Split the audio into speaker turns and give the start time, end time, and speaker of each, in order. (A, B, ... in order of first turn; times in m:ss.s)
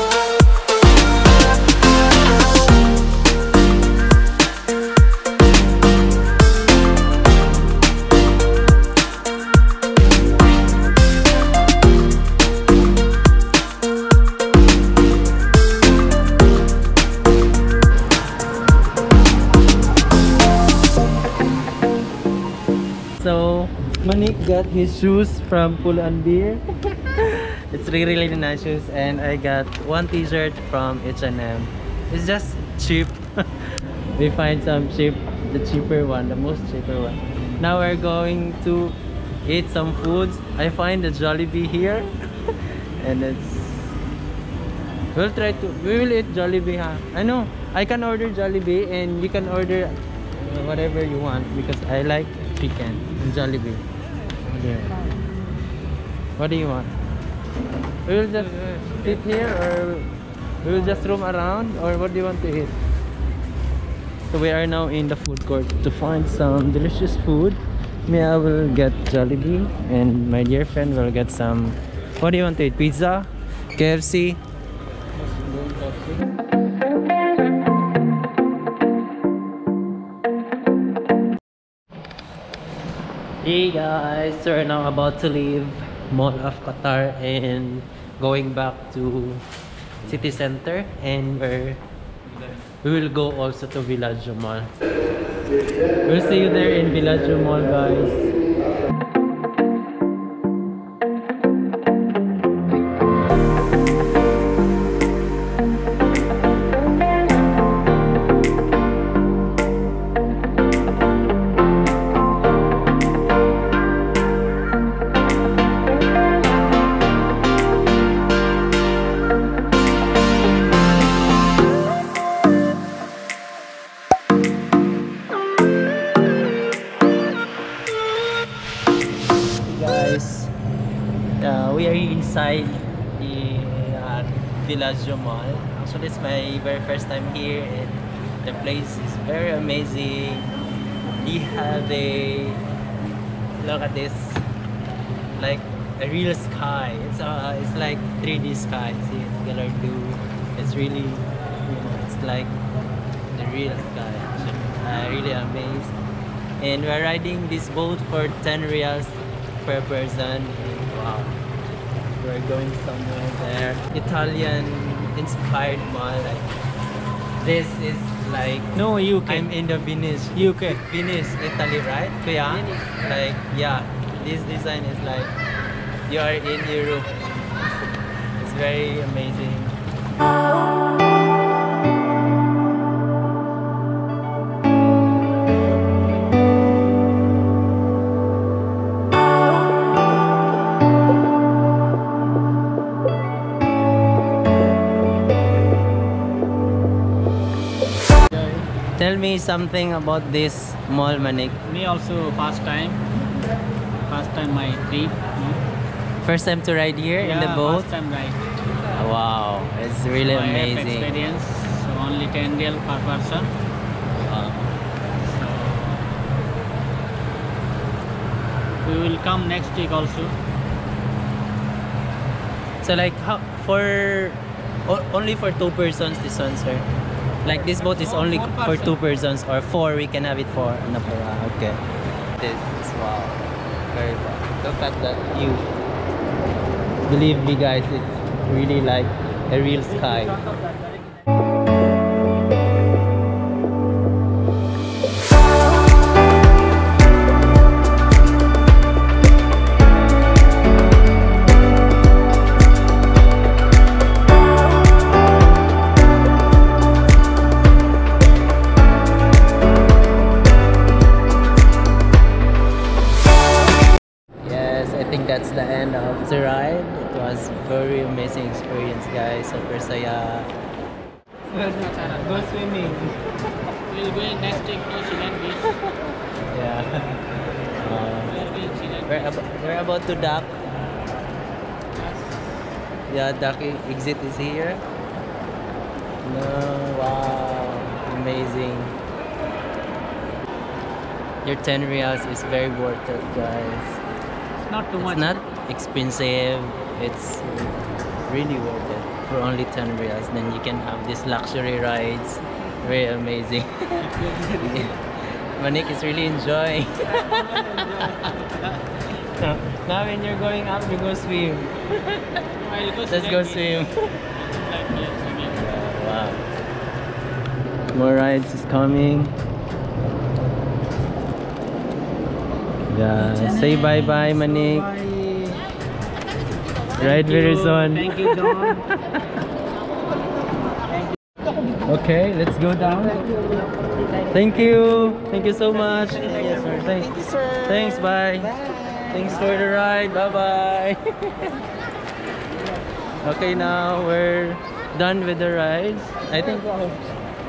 0:23.2-0:42.1 A
0:43.0-0:44.0 A
0:45.1-0:53.8 A
0:54.4-0:55.0 A
0:56.4-0:56.9 A
0:58.0-1:00.1 A
1:00.6-1:02.7 A
1:04.3-1:14.4 A
1:23.4-1:29.4 A
1:30.0-1:31.8 A
1:32.8-1:34.7 A
1:36.0-1:38.4 A
2:09.6-2:10.5 A
2:11.4-2:20.5 A
2:21.2-2:22.6 A
2:23.6-2:24.4 A
2:25.4-2:32.5 A
2:33.3-2:36.0 A
2:36.6-2:41.4 A
2:42.2-2:46.5 A
2:47.4-2:55.3 A
2:48.8-2:49.5 B
2:50.3-2:50.8 B
2:56.1-2:57.2 A
2:58.4-2:59.8 A
3:18.4-3:18.6 B
3:19.0-3:21.6 A
3:21.6-3:23.0 B
3:24.1-3:25.6 B
3:26.2-3:27.9 A
3:27.2-3:28.4 B
3:28.9-3:31.1 A
3:30.2-3:33.5 B
3:34.2-3:34.7 A
3:35.2-3:36.0 B
3:38.8-3:40.4 B
3:42.8-3:46.8 A
3:47.4-3:51.8 A
3:47.5-3:49.0 B
3:52.4-3:55.6 A
3:57.0-4:00.4 A
4:00.2-4:00.8 B
4:24.4-4:30.5 A
4:31.5-4:32.6 B
4:32.4-4:33.1 A
4:33.9-4:35.8 B
4:35.6-4:37.2 A
4:37.8-4:38.4 A
4:38.2-4:39.5 B
4:39.1-4:40.5 A
4:42.0-4:42.5 B
4:43.1-4:44.8 A
4:46.2-4:49.0 A
4:51.4-4:54.0 A
4:54.6-4:55.4 B
4:55.0-5:05.0 A
5:04.1-5:04.9 B
5:05.5-5:08.5 A
5:07.1-5:08.5 B
5:09.2-5:12.4 A
5:12.6-5:15.7 B
5:13.1-5:13.9 A
5:15.5-5:16.4 A
5:17.9-5:19.3 A
5:22.9-5:24.9 A
5:23.2-5:25.6 B
5:27.0-5:28.9 B
5:27.0-5:28.9 A
5:31.8-5:33.3 A
5:34.3-5:41.5 A
5:43.2-5:47.0 A